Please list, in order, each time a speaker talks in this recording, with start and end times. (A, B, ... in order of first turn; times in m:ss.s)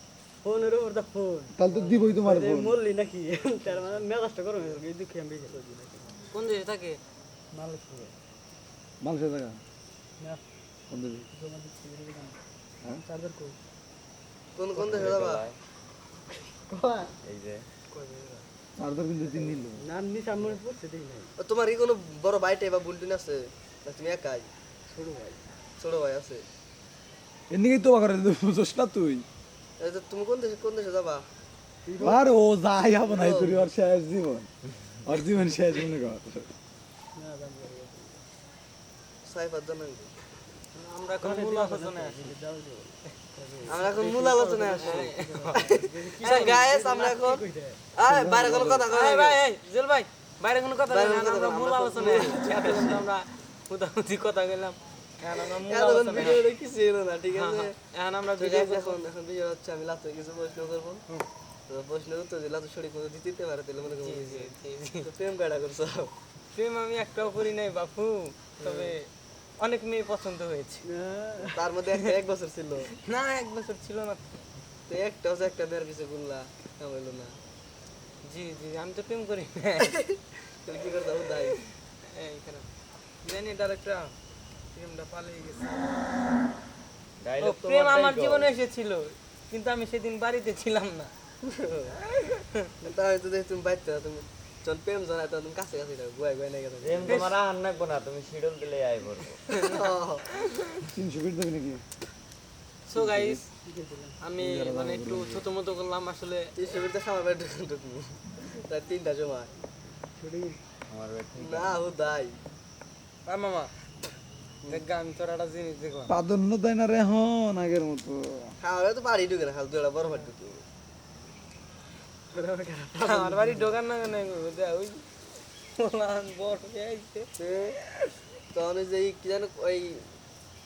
0:00.4-0:06.2 A
0:01.5-0:02.8 B
0:06.3-0:07.0 C
0:07.5-0:08.1 A
0:09.0-0:09.6 B
0:10.9-0:11.3 B
0:11.3-0:12.4 A
0:13.0-0:13.6 A
0:14.6-0:15.4 D
0:14.8-0:15.6 E
0:16.5-0:17.1 A
0:17.2-0:17.6 E
0:18.1-0:18.4 A
0:18.8-0:19.8 B
0:19.3-0:21.3 A
0:21.4-0:24.5 D
0:24.9-0:25.4 A
0:25.8-0:26.5 D
0:27.5-0:29.2 B
0:29.8-0:31.2 D
0:31.9-0:32.2 A
0:32.0-0:34.5 B
0:33.0-0:33.7 D
0:35.0-0:36.5 B
0:37.1-0:38.2 A
0:39.2-0:40.1 D
0:40.8-0:42.3 C
0:41.2-0:47.8 A
0:43.7-0:49.4 D
0:44.8-0:46.6 C
0:48.1-0:48.8 B
0:48.9-0:56.4 C
0:50.9-0:53.1 D
0:55.3-0:57.8 D
0:57.3-0:59.0 C
0:58.4-1:01.0 D
1:01.7-1:06.1 D
1:03.9-1:05.0 C
1:06.5-1:09.1 C
1:08.7-1:08.9 A
1:09.6-1:10.8 C
1:10.8-1:11.7 A
1:11.5-1:12.9 D
1:12.9-1:14.4 C
1:14.9-1:17.4 D
1:18.2-1:20.0 C
1:20.6-1:21.6 D
1:21.3-1:22.7 C
1:23.2-1:24.1 C
1:24.7-1:26.0 C
1:27.2-1:28.5 E
1:27.4-1:31.1 C
1:31.4-1:32.0 D
1:32.2-1:32.6 C
1:32.8-1:37.3 D
1:36.8-1:39.4 E
1:37.1-1:37.4 C
1:39.5-1:40.2 D
1:40.4-1:40.8 C
1:40.8-1:41.8 B
1:42.9-1:43.4 C
1:42.9-1:43.4 B
1:43.7-1:44.2 A
1:44.2-1:46.8 C
1:44.4-1:45.4 B
1:46.6-1:49.6 D
1:50.2-1:50.6 A
1:50.9-1:51.8 E
1:51.4-1:52.4 D
1:53.2-1:53.7 C
1:54.7-1:56.2 C
1:56.1-1:58.6 B
1:58.6-2:00.6 D
2:00.0-2:00.3 A
2:02.3-2:03.8 A
2:03.0-2:07.3 C
2:07.4-2:07.8 D
2:08.5-2:10.0 D